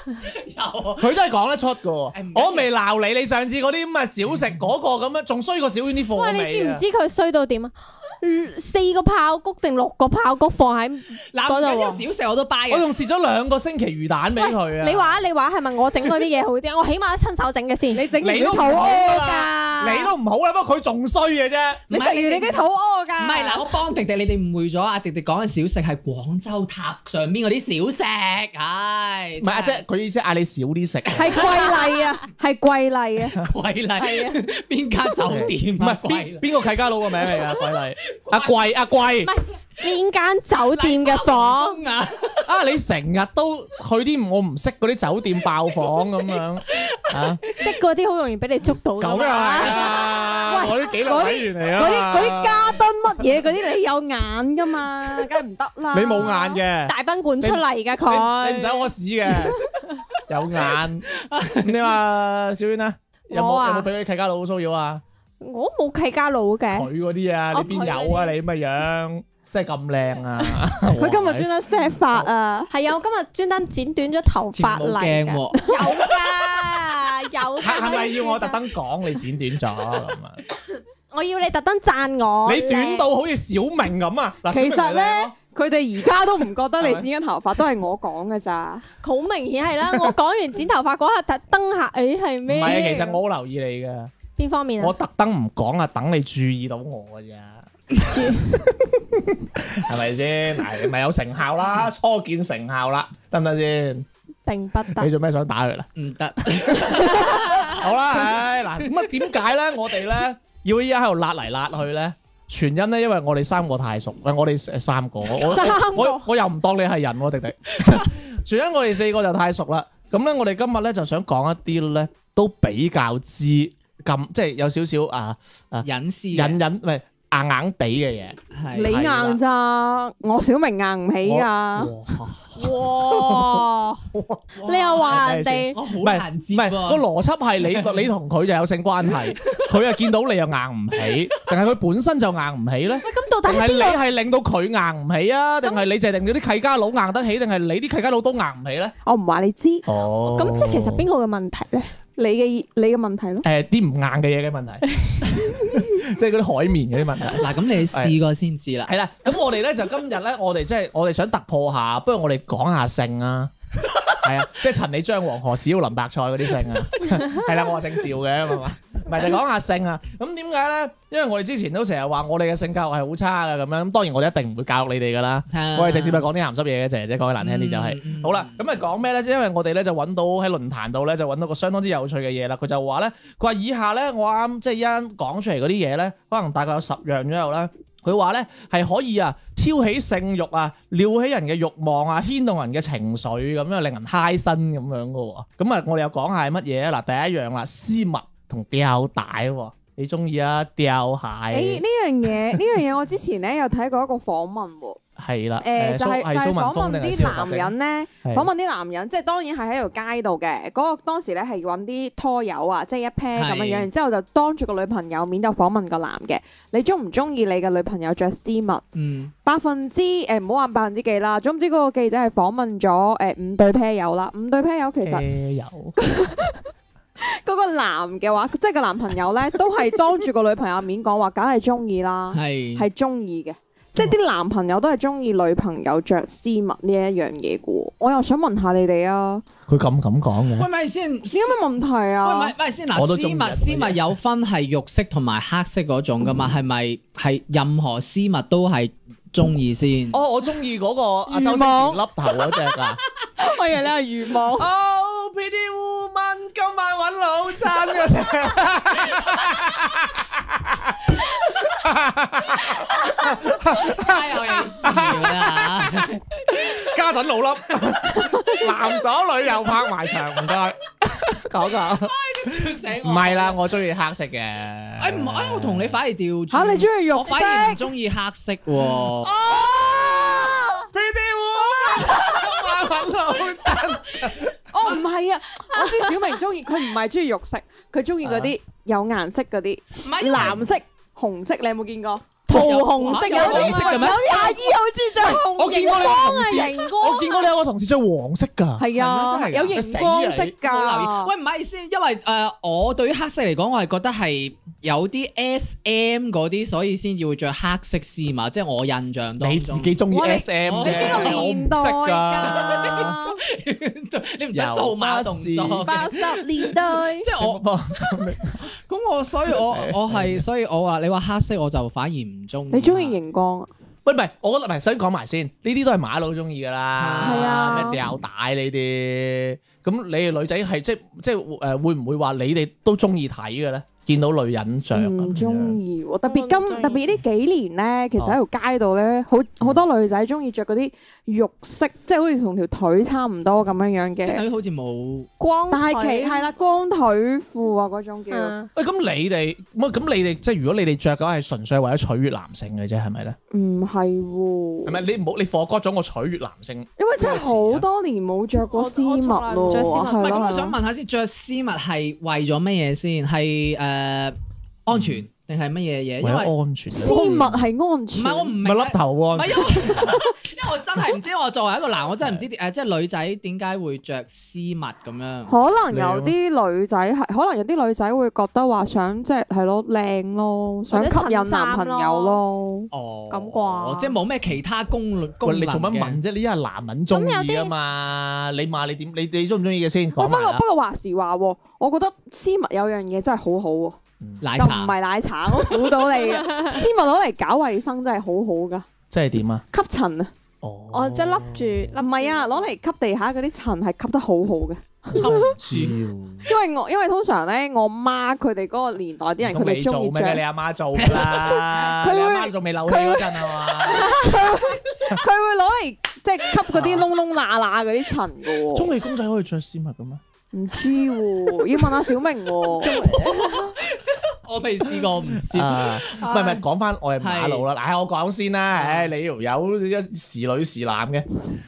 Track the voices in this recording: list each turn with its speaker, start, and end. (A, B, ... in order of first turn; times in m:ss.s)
0:00.2-0:01.1 A
0:01.0-0:06.8 B
0:02.1-0:02.7 A
0:06.1-0:12.0 C
0:11.3-0:12.9 A
0:12.7-0:15.2 B
0:14.4-0:18.0 C
0:17.9-0:20.1 D
0:18.2-0:21.8 B
0:21.9-0:22.6 A
0:21.9-0:23.7 D
0:23.2-0:29.8 A
0:29.3-0:31.5 B
0:31.1-0:33.4 D
0:31.4-0:32.0 C
0:33.4-0:36.4 A
0:34.0-0:34.4 D
0:35.2-0:39.3 B
0:37.3-0:37.6 A
0:38.1-0:38.6 A
0:39.2-0:41.8 C
0:40.7-0:42.5 A
0:42.4-0:47.4 B
0:46.7-0:47.7 A
0:47.5-0:50.4 C
0:49.0-0:52.7 B
0:50.5-0:56.6 D
0:55.9-0:59.6 B
0:56.8-0:58.9 C
1:00.3-1:05.0 B
1:01.2-1:01.8 A
1:03.3-1:03.9 C
1:05.4-1:06.9 C
1:06.7-1:11.5 B
1:07.5-1:08.3 C
1:11.0-1:12.7 D
1:12.7-1:18.6 C
1:14.5-1:15.9 A
1:17.6-1:20.4 B
1:21.1-1:23.1 C
1:22.4-1:25.3 B
1:24.5-1:28.8 D
1:26.8-1:27.1 B
1:29.0-1:33.2 C
1:29.9-1:30.1 B
1:32.5-1:34.1 B
1:34.4-1:34.9 C
1:34.8-1:44.0 B
1:38.0-1:38.6 C
1:44.4-1:45.1 C
1:44.9-1:45.9 B
1:46.0-1:47.9 A
1:46.4-2:09.4 B
1:55.3-1:56.3 C
2:05.8-2:06.6 A
2:08.5-2:09.0 A
2:08.7-2:11.9 D
2:11.2-2:28.9 B
2:12.6-2:14.0 C
2:14.6-2:15.8 C
2:15.7-2:17.0 A
2:17.6-2:18.0 A
2:19.4-2:19.7 A
2:23.0-2:24.0 C
2:29.0-2:29.8 D
2:29.8-2:31.1 B
2:30.3-2:31.9 C
2:32.2-2:33.4 D
2:33.4-2:38.2 B
2:37.4-2:38.9 A
2:38.8-2:43.5 B
2:43.9-2:44.2 A
2:44.2-3:21.8 B
2:46.5-2:47.5 A
2:55.5-2:56.2 A
2:57.4-2:58.7 A
3:21.5-3:25.0 D
3:25.2-3:28.5 B
3:25.6-3:38.8 D
3:33.3-3:33.9 A
3:38.9-3:39.3 A
3:39.4-3:45.2 D
3:45.0-3:46.0 B
3:46.0-3:46.6 D
3:47.2-3:59.4 D
3:52.3-3:52.9 A
3:59.7-4:00.7 B
4:00.6-4:01.6 A
4:01.3-4:02.5 D
4:02.2-4:10.2 A
4:02.9-4:04.1 B
4:10.1-4:13.0 B
4:11.3-4:12.6 D
4:13.4-4:14.7 D
4:14.5-4:36.0 B
4:23.6-4:26.2 A
4:28.1-4:28.6 D
4:31.9-4:33.6 A
4:35.0-4:39.3 A
4:36.5-4:37.8 D
4:39.2-4:44.9 B
4:39.3-4:40.9 D
4:41.6-4:42.5 D
4:44.7-4:57.4 D
4:48.2-4:48.5 B
4:50.0-4:50.7 A
4:50.3-4:50.7 B
4:52.5-4:54.4 C
4:52.5-4:54.6 A
4:55.2-4:58.9 B
4:58.8-5:01.3 D
4:58.9-4:59.7 A
4:59.7-5:00.6 B
5:00.6-5:10.0 A
5:09.4-5:13.1 B
5:10.1-5:13.4 D
5:10.6-5:11.5 A
5:12.4-5:17.6 A
5:14.5-5:15.9 B
5:15.8-5:17.3 D
5:17.3-5:18.6 B
5:18.9-5:23.2 A
5:19.5-5:20.4 B
5:22.7-5:23.7 D
5:24.0-5:35.8 B
5:27.0-5:27.9 A
5:27.2-5:28.0 D
5:34.9-5:44.4 D
5:36.2-5:37.0 C
5:44.2-5:45.3 A
5:45.4-5:46.4 C
5:45.7-5:48.5 D
5:48.3-5:48.7 C
5:48.7-5:53.4 B
5:53.5-5:55.0 D
5:54.8-5:57.8 B
5:57.0-6:00.8 D
5:58.7-6:00.5 C
6:00.2-6:06.5 A
6:04.9-6:05.2 B
6:06.2-6:07.6 B
6:06.9-6:08.6 D
6:08.1-6:15.5 A
6:08.6-6:10.2 B
6:15.5-6:22.9 D
6:15.9-6:16.3 B
6:20.9-6:22.4 C
6:22.9-6:26.2 A
6:23.3-6:24.1 C
6:25.4-6:30.6 B
6:27.1-6:27.7 C
6:30.1-6:34.0 D
6:34.2-6:34.4 B
6:34.4-6:34.9 A
6:34.6-6:38.8 D
6:36.4-6:36.8 C
6:39.1-6:39.6 B
6:39.7-6:40.3 D
6:40.6-6:42.0 B
6:40.9-6:42.7 C
6:42.0-6:45.5 D
6:45.1-6:46.5 B
6:45.2-6:46.0 A
6:46.4-6:50.4 D
6:49.4-6:54.2 B
6:51.0-6:51.5 A
6:51.4-6:58.9 D
6:56.7-6:57.1 B
6:58.7-7:00.2 B
7:00.5-7:03.7 D
7:02.8-7:06.5 A
7:05.5-7:11.2 B
7:06.2-7:06.5 C
7:07.2-7:07.6 A
7:08.7-7:09.1 A